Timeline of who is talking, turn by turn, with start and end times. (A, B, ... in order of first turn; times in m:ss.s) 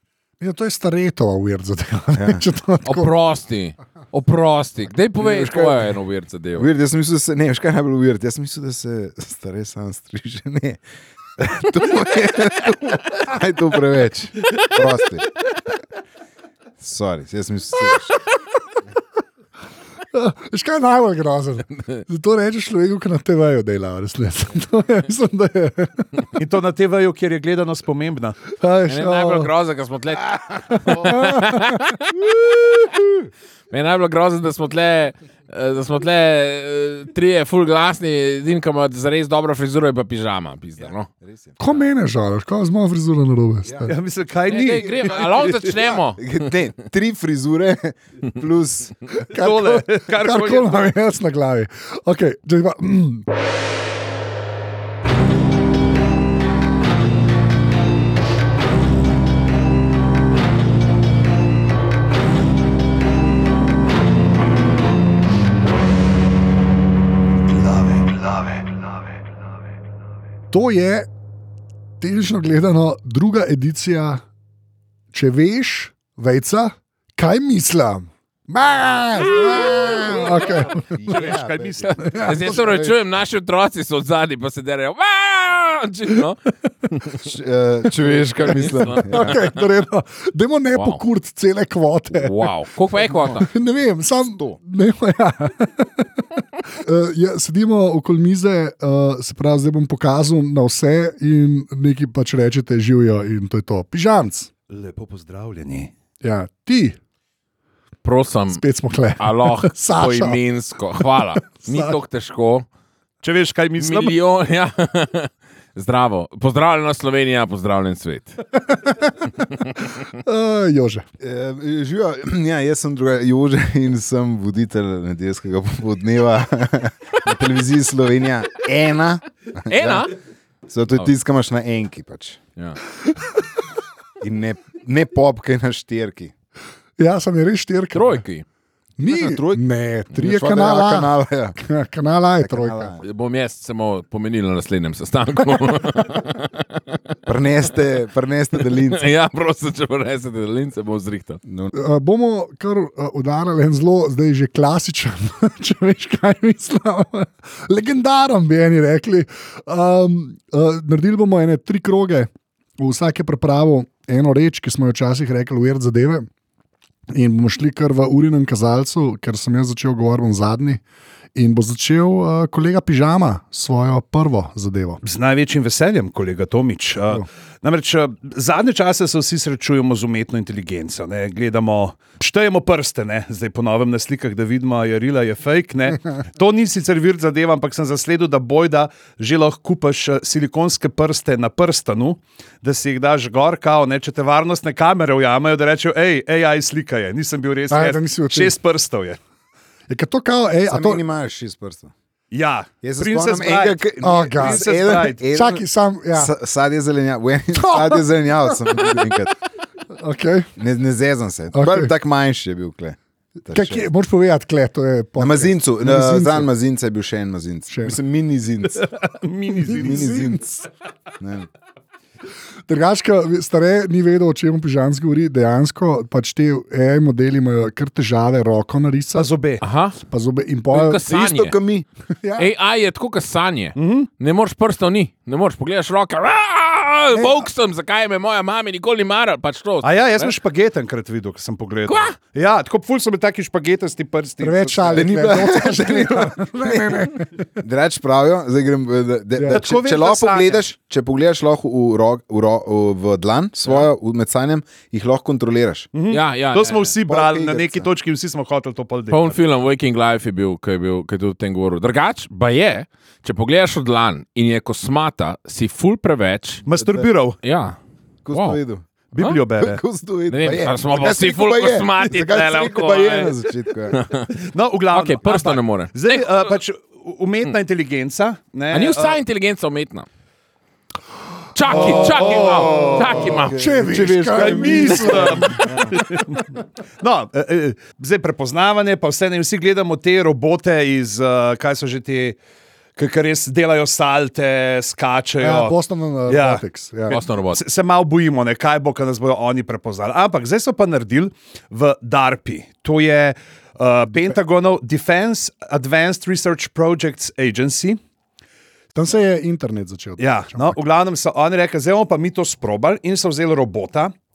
0:00.4-0:03.1 A
0:02.2-0:02.4 B
0:02.8-0:06.7 C
0:05.2-0:05.9 B
0:06.6-0:10.8 B
0:11.4-0:15.3 B
0:16.8-0:18.2 B
0:20.1-0:26.3 A
0:26.4-0:28.4 D
0:28.5-0:29.5 A
0:28.9-0:32.3 C
0:30.9-0:31.8 A
0:33.7-0:41.1 C
0:41.1-0:41.9 B
0:41.6-0:43.9 A
0:43.7-0:43.9 B
0:43.8-0:45.7 D
0:44.5-0:46.5 C
0:44.6-0:49.1 B
0:49.2-0:53.3 A
0:49.3-0:50.8 D
1:10.5-1:11.1 A
1:12.0-1:14.2 A
1:15.1-1:21.0 A
1:19.5-1:23.0 B
1:21.0-1:22.1 D
1:22.0-1:22.4 A
1:22.1-1:27.2 C
1:27.2-1:29.4 B
1:28.5-1:29.4 C
1:29.0-1:32.6 A
1:30.8-1:31.0 C
1:32.1-1:33.5 C
1:33.2-1:44.5 A
1:44.7-1:45.9 D
1:46.2-1:47.0 A
1:48.0-1:48.6 C
1:48.5-1:50.4 A
1:49.2-1:52.7 C
1:51.6-1:52.0 A
1:53.2-1:54.2 D
1:53.8-1:58.4 C
1:58.7-1:59.2 A
2:00.2-2:01.0 A
2:01.2-2:10.1 B
2:09.7-2:10.1 C
2:10.7-2:12.4 B
2:14.2-2:16.3 B
2:17.0-2:18.2 A
2:17.9-2:18.5 C
2:19.0-2:22.9 A
2:19.0-2:21.6 B
2:22.4-2:23.0 B
2:23.0-2:27.2 C
2:27.3-2:29.0 B
2:28.6-2:31.4 C
2:31.4-2:31.7 B
2:31.7-2:46.3 A
2:47.1-2:50.8 A
2:51.4-2:55.0 A
2:55.0-3:19.2 D
3:17.7-3:18.6 A
3:19.9-3:21.0 A
3:20.7-3:21.9 B
3:22.3-3:25.2 D
3:22.8-3:29.3 B
3:24.0-3:24.7 A
3:25.3-3:26.3 A
3:27.5-3:28.0 A
3:30.0-3:30.5 A
3:30.6-3:33.8 B
3:31.5-3:31.9 A
3:33.5-3:36.5 A
3:35.2-3:38.9 B
3:37.7-3:38.0 A
3:38.8-3:40.1 D
3:39.7-3:40.4 A
3:39.7-3:40.6 B
3:41.2-3:41.5 B
3:42.7-3:49.3 A
3:49.2-3:49.6 D
3:49.6-3:50.0 C
3:50.1-3:51.0 A
3:50.7-3:51.6 C
3:51.1-3:51.9 B
3:52.2-3:52.5 A
3:52.4-4:00.3 C
3:53.8-3:54.1 D
3:57.1-3:57.5 A
3:59.8-4:05.1 D
4:01.9-4:02.2 C
4:04.4-4:07.5 A
4:04.9-4:15.9 B
4:09.5-4:10.6 D
4:15.9-4:19.4 D
4:16.1-4:16.9 C
4:17.0-4:17.9 B
4:19.1-4:26.6 C
4:26.7-4:27.4 D
4:26.8-4:27.1 B
4:27.4-4:27.8 C
4:28.2-4:28.9 B
4:28.3-4:28.6 C
4:29.1-4:29.8 D
4:29.6-4:34.0 B
4:30.3-4:33.4 C
4:33.9-4:34.3 C
4:34.3-4:39.2 D
4:34.9-4:36.6 C
4:38.7-4:40.1 C
4:41.5-4:43.6 C
4:41.7-4:43.4 D
4:42.9-4:46.0 B
4:43.5-4:45.6 A
4:44.4-4:52.4 D
4:45.1-4:45.8 C
4:53.0-4:55.8 D
4:55.4-4:57.2 A
4:56.3-5:08.0 D
4:57.1-4:57.6 C
5:09.0-5:10.8 A
5:10.2-5:14.1 D